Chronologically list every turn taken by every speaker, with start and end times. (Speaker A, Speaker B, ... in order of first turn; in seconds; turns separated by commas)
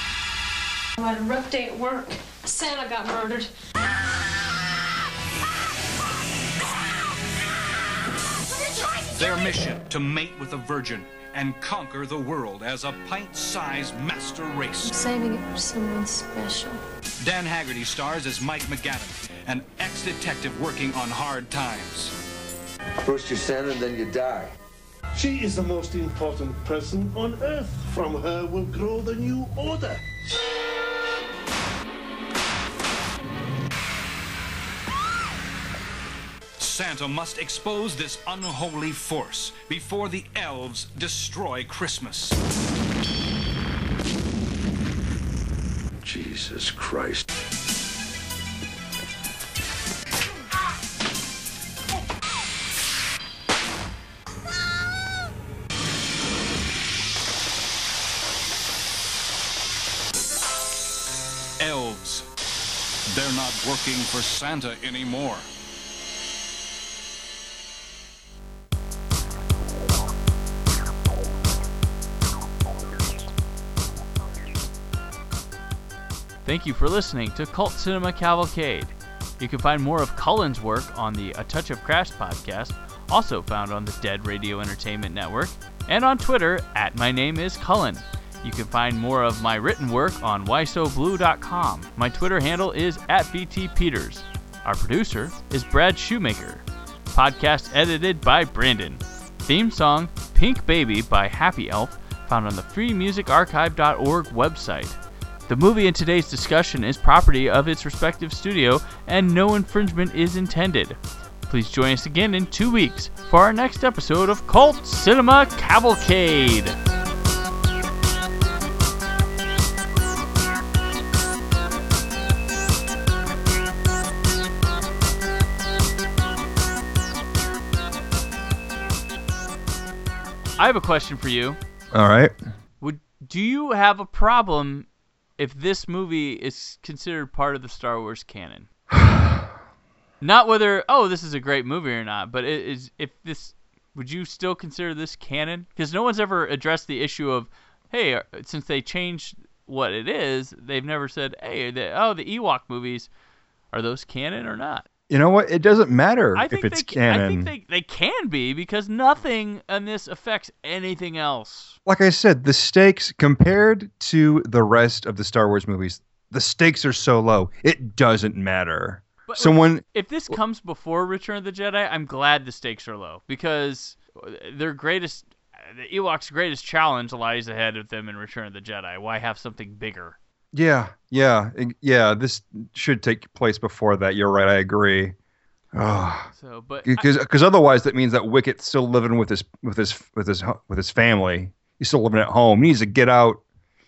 Speaker A: 1.0-3.5, Speaker B: 9.1-15.0, Speaker A: 14.8-16.8, Speaker B: 17.2-22.1, Speaker C: 23.0-24.5, Speaker D: 25.1-30.0, Speaker B: 36.6-42.4, Speaker C: 46.0-47.2, Speaker B: 61.6-62.2, Speaker B: 63.1-65.5, Speaker E: 76.4-116.8, Speaker E: 130.6-131.6, Speaker F: 131.9-132.3, Speaker E: 132.8-134.8, Speaker E: 135.4-138.7, Speaker F: 139.1-139.3, Speaker E: 140.2-153.1, Speaker E: 153.7-154.8, Speaker F: 155.1-157.5, Speaker E: 156.3-161.8, Speaker F: 161.8-170.4, Speaker E: 169.3-180.2, Speaker F: 180.5-185.2, Speaker F: 185.7-186.3, Speaker E: 186.3-187.1, Speaker F: 186.8-193.4